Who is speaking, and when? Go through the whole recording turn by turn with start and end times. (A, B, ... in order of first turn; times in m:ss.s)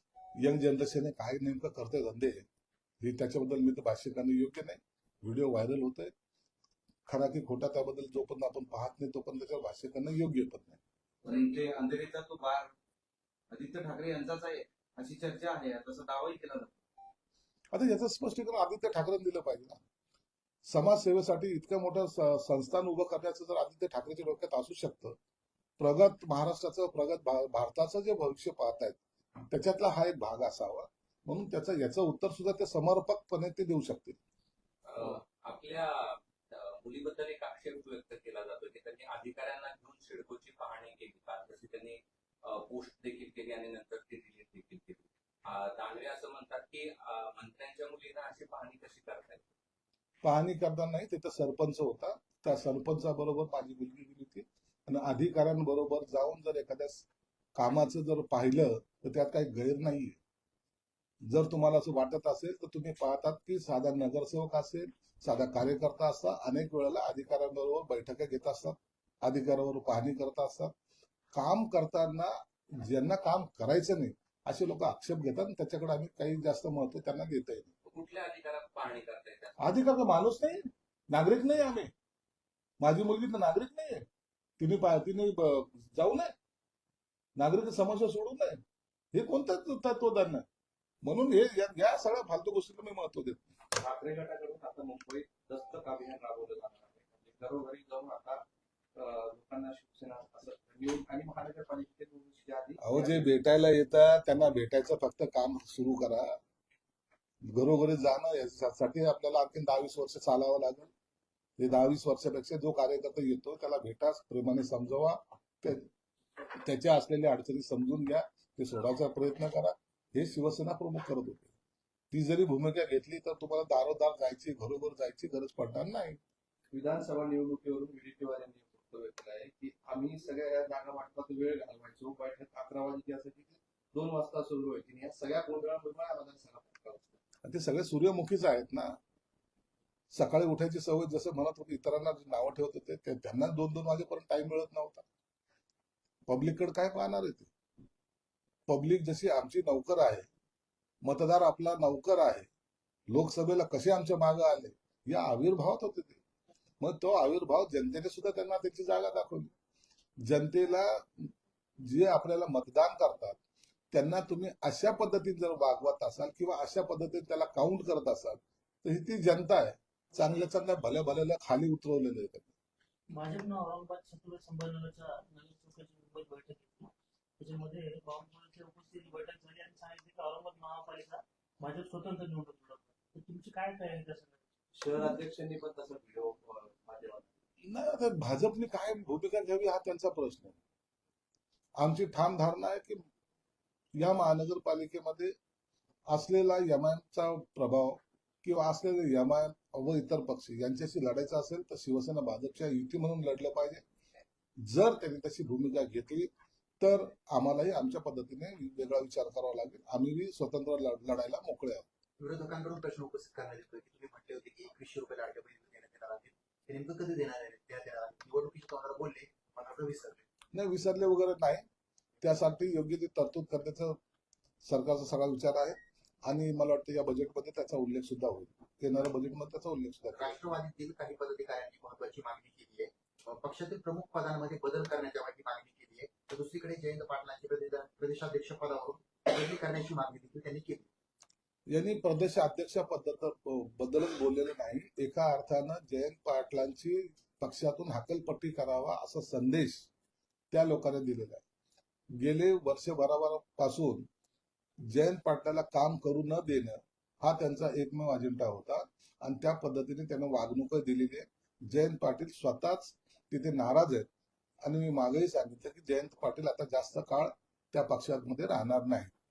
0:00.4-0:02.4 A
0:03.0-0:06.1 A
0:07.1-0:10.8 A
0:11.2-0:12.7 B
0:13.5-0:16.7 B
0:17.7-0:19.8 A
0:20.7-0:25.2 A
0:25.8-0:29.0 A
0:29.5-0:34.2 A
0:34.8-0:49.4 C
0:50.2-1:00.2 A
1:01.2-1:10.7 A
1:11.3-1:17.7 A
1:17.8-1:19.6 C
1:19.6-1:21.9 A
1:22.8-1:24.0 A
1:24.6-1:26.3 A
1:27.4-1:28.6 A
1:29.1-1:30.4 A
1:31.0-1:33.4 A
1:33.7-1:38.4 B
1:38.9-1:43.2 B
1:42.8-1:46.4 A
1:47.4-1:50.9 A
1:51.6-1:55.9 A
1:56.6-2:01.5 A
2:02.1-2:06.2 A
2:06.7-2:17.2 B
2:17.4-2:19.0 A
2:20.1-2:25.0 A
2:26.3-2:27.5 A
2:28.7-2:30.3 A
2:31.0-2:32.5 A
2:33.1-2:36.2 A
2:36.8-2:39.5 A
2:40.2-2:43.4 A
2:43.9-2:52.5 A
2:53.1-3:05.2 D
3:04.7-3:07.3 B
3:07.6-3:10.6 A
3:11.8-3:13.0 A
3:13.9-3:15.3 A
3:16.1-3:23.8 A
3:24.6-3:31.8 A
3:32.2-3:40.2 E
3:40.5-3:41.6 A
3:42.2-3:44.0 A
3:44.6-3:50.4 A
3:50.1-4:00.9 E
4:01.7-4:09.9 A
4:10.5-4:11.4 A
4:12.2-4:14.1 A
4:14.8-4:24.1 A
4:24.6-4:29.1 A